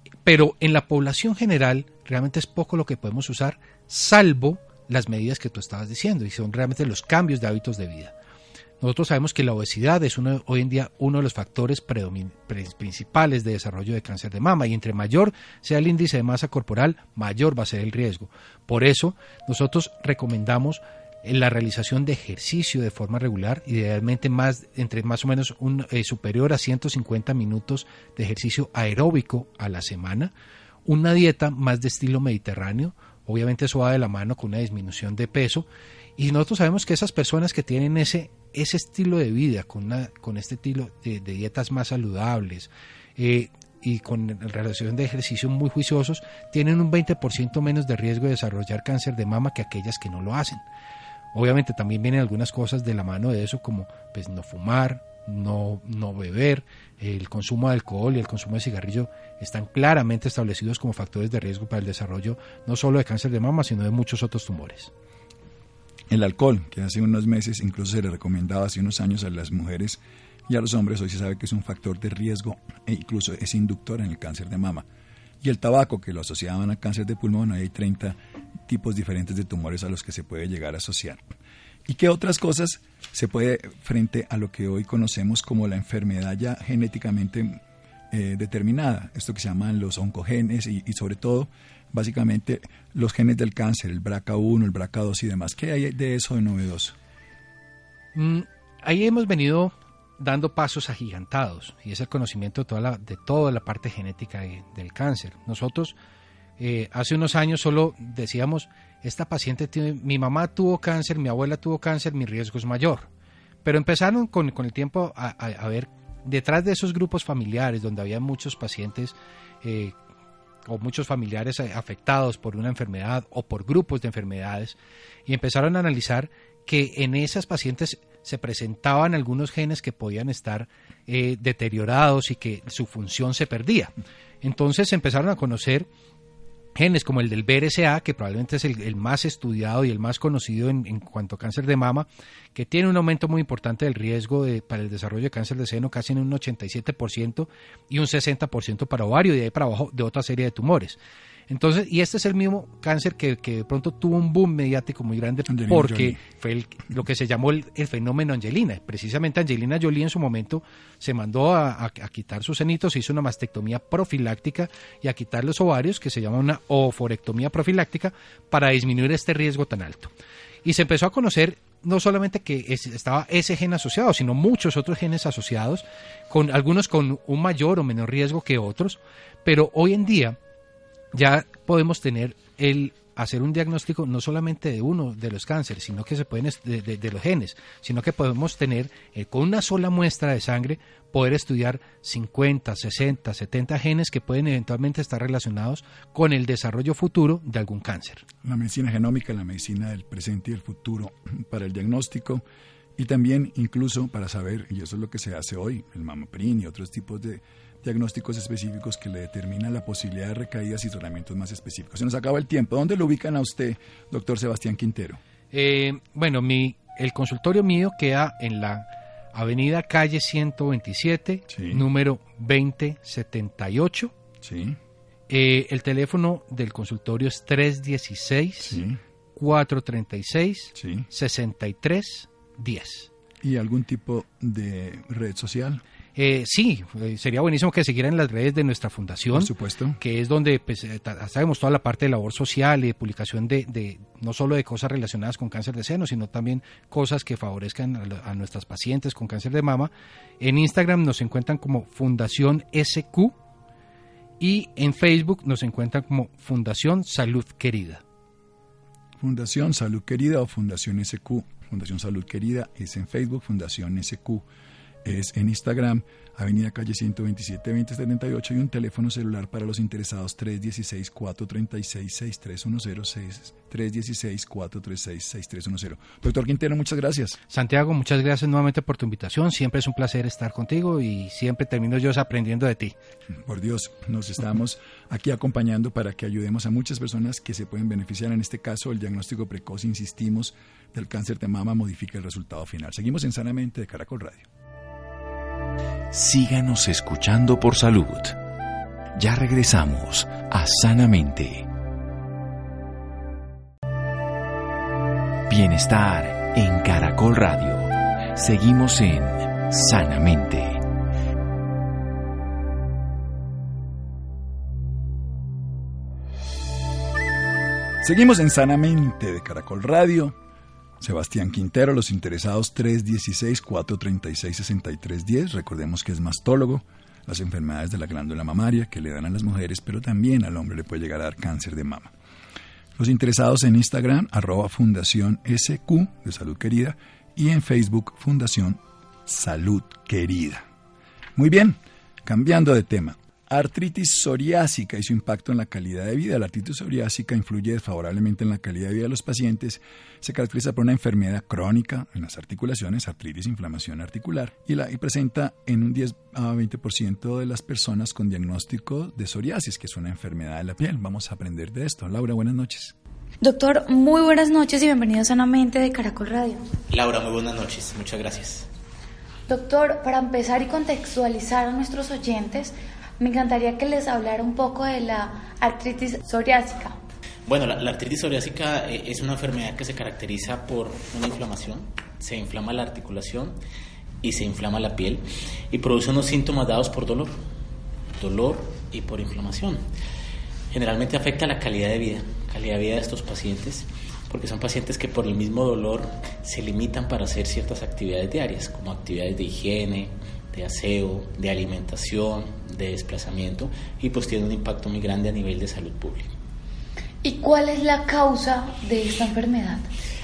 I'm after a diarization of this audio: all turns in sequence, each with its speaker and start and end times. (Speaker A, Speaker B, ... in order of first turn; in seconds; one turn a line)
Speaker A: 0.2-8.1
Speaker A: 8.8-30.3
Speaker A: 30.9-35.7
Speaker A: 36.2-50.6
Speaker A: 51.3-64.9
Speaker B: 66.1-74.9
Speaker B: 75.4-81.2
Speaker B: 81.9-97.0
Speaker A: 98.1-106.0
Speaker A: 106.6-113.1
Speaker A: 113.6-120.0
Speaker A: 120.7-135.9
Speaker A: 136.8-151.0
Speaker A: 151.5-170.1
Speaker B: 155.5-156.2
Speaker A: 170.6-180.4
Speaker A: 181.1-198.3
Speaker B: 198.4-202.4
Speaker B: 203.0-215.2
Speaker A: 215.5-224.1
Speaker B: 221.5-221.8
Speaker B: 224.4-224.8
Speaker A: 225.3-228.8
Speaker B: 228.6-229.0
Speaker A: 229.3-233.1
Speaker B: 230.8-231.1
Speaker B: 233.4-235.8
Speaker A: 236.2-253.3
Speaker B: 239.3-240.0
Speaker A: 254.4-258.0
Speaker B: 259.2-264.4
Speaker B: 265.0-277.4
Speaker A: 277.5-282.9
Speaker B: 283.3-294.5
Speaker C: 296.1-298.4
Speaker C: 299.2-301.7
Speaker C: 305.5-310.9
Speaker B: 318.0-320.4
Speaker B: 321.0-332.1
Speaker B: 333.0-340.6
Speaker B: 341.4-362.9
Speaker D: 363.4-366.6
Speaker E: 366.9-368.7
Speaker D: 369.5-377.0
Speaker E: 377.5-383.6
Speaker E: 384.2-387.4
Speaker E: 388.2-389.8
Speaker E: 390.7-406.3
Speaker D: 407.2-409.8